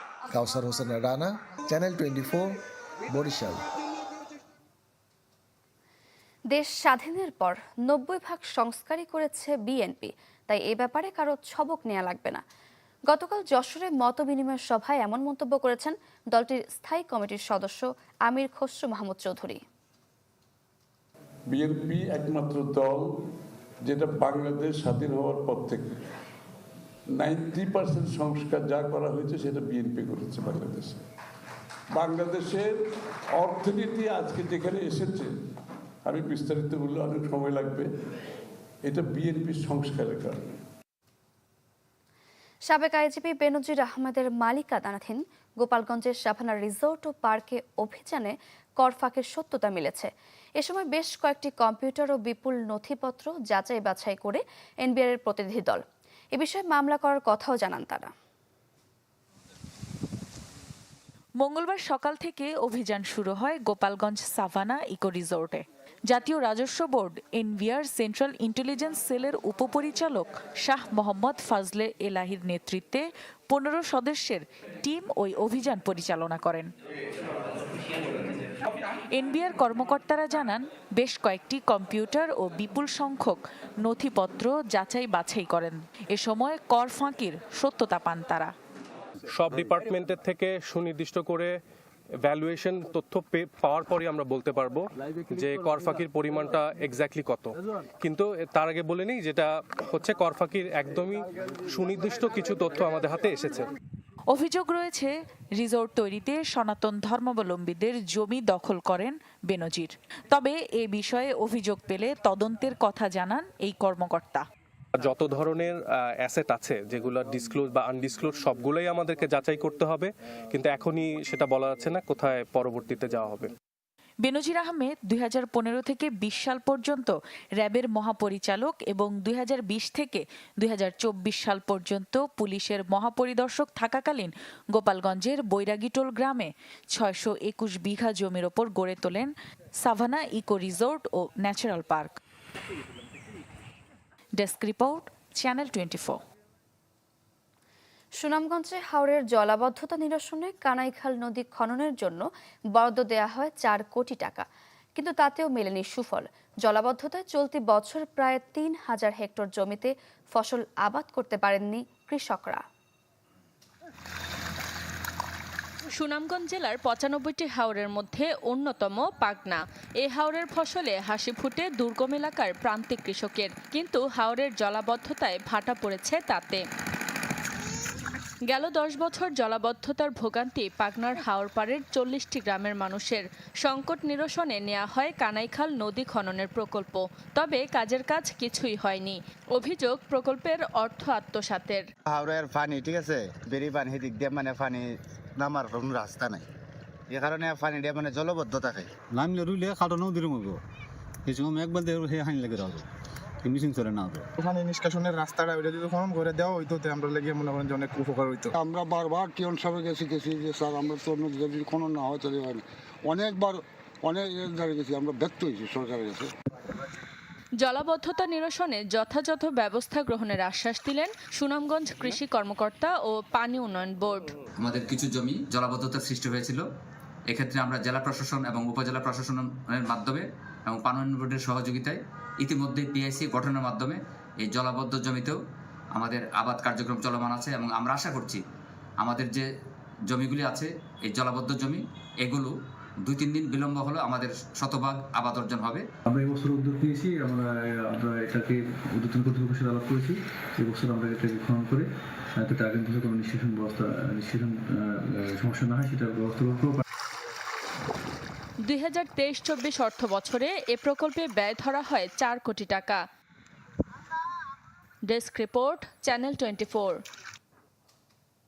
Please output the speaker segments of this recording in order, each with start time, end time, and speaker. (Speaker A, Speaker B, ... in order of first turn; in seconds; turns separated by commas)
Speaker A: 0.3-2.5, Speaker A: 3.1-3.6, Speaker B: 6.5-12.4, Speaker B: 13.1-19.6, Speaker C: 21.5-23.0, Speaker C: 23.9-25.9, Speaker C: 27.2-31.0, Speaker C: 31.9-32.7, Speaker C: 33.4-35.3, Speaker C: 36.0-37.9, Speaker C: 38.9-40.5, Speaker B: 42.6-55.8, Speaker B: 56.3-58.1, Speaker D: 61.4-76.7, Speaker D: 79.1-88.5, Speaker E: 89.3-91.5, Speaker E: 92.2-103.7, Speaker D: 104.3-114.4, Speaker E: 115.0-123.5, Speaker D: 124.2-142.2, Speaker D: 144.4-146.2, Speaker B: 148.2-154.4, Speaker B: 154.9-162.6, Speaker F: 165.9-176.6, Speaker F: 178.5-191.8, Speaker G: 192.1-194.8, Speaker G: 195.4-196.4, Speaker G: 197.1-198.8, Speaker H: 199.1-200.6, Speaker H: 201.2-202.8, Speaker H: 203.4-204.2, Speaker I: 204.5-208.4, Speaker J: 208.6-216.3, Speaker F: 217.6-224.3, Speaker K: 224.6-226.6, Speaker K: 227.3-235.4, Speaker K: 235.9-238.4, Speaker K: 239.0-239.4, Speaker K: 240.1-245.8, Speaker L: 246.1-251.8, Speaker L: 252.4-254.8, Speaker L: 255.3-256.8, Speaker F: 258.6-263.0, Speaker F: 265.1-267.0